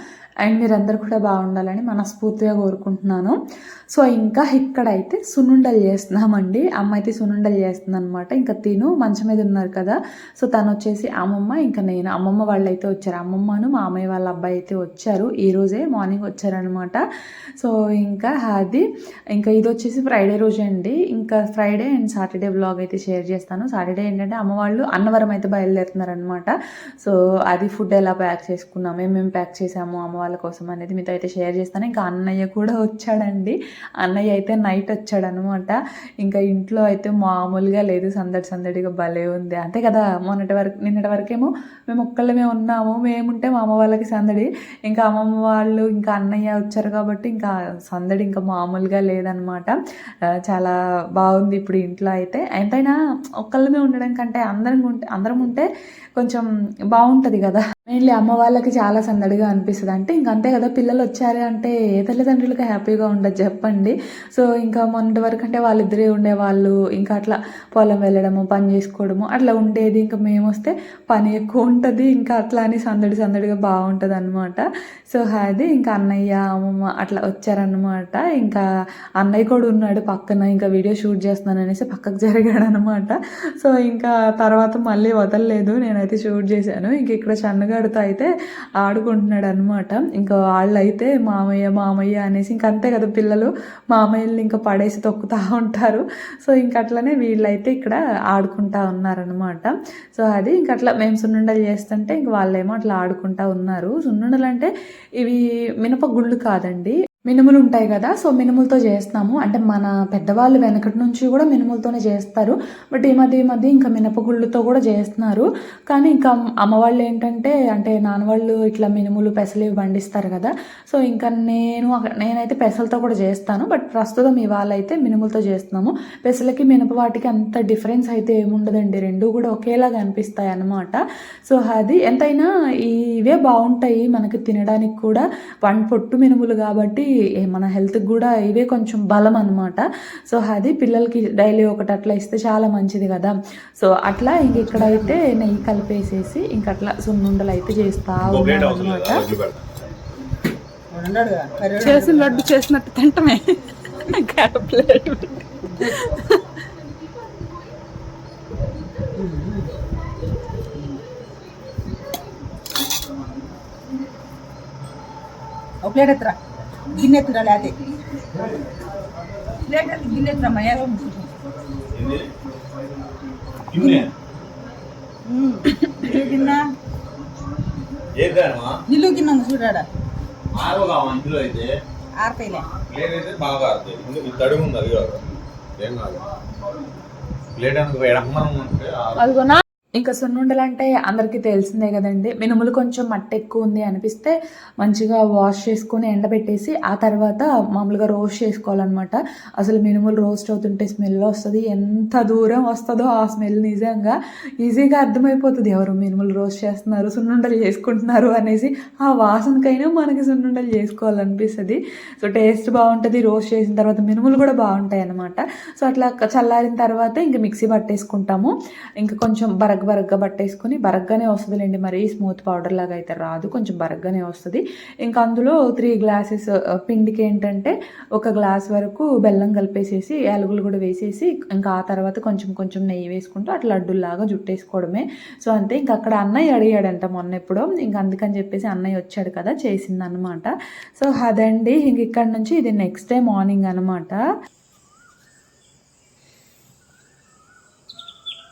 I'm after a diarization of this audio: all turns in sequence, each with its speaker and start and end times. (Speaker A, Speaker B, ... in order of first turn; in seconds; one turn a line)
Speaker A: 0.4-3.4
Speaker A: 3.9-17.0
Speaker A: 17.6-18.8
Speaker A: 19.4-49.8
Speaker A: 50.5-55.7
Speaker A: 56.2-78.6
Speaker A: 79.2-88.3
Speaker A: 88.8-149.2
Speaker B: 144.6-145.2
Speaker C: 148.2-149.7
Speaker B: 150.9-152.5
Speaker A: 151.8-156.5
Speaker B: 155.8-156.1
Speaker B: 159.2-159.7
Speaker B: 165.8-166.4
Speaker B: 166.9-167.8
Speaker B: 169.7-171.3
Speaker C: 171.9-172.3
Speaker C: 173.7-174.1
Speaker B: 173.8-174.1
Speaker B: 175.3-176.7
Speaker C: 176.0-176.6
Speaker C: 178.2-178.8
Speaker B: 178.9-179.9
Speaker C: 180.6-181.7
Speaker B: 182.2-182.7
Speaker C: 182.9-185.2
Speaker C: 185.8-186.2
Speaker C: 187.6-189.3
Speaker A: 189.2-244.2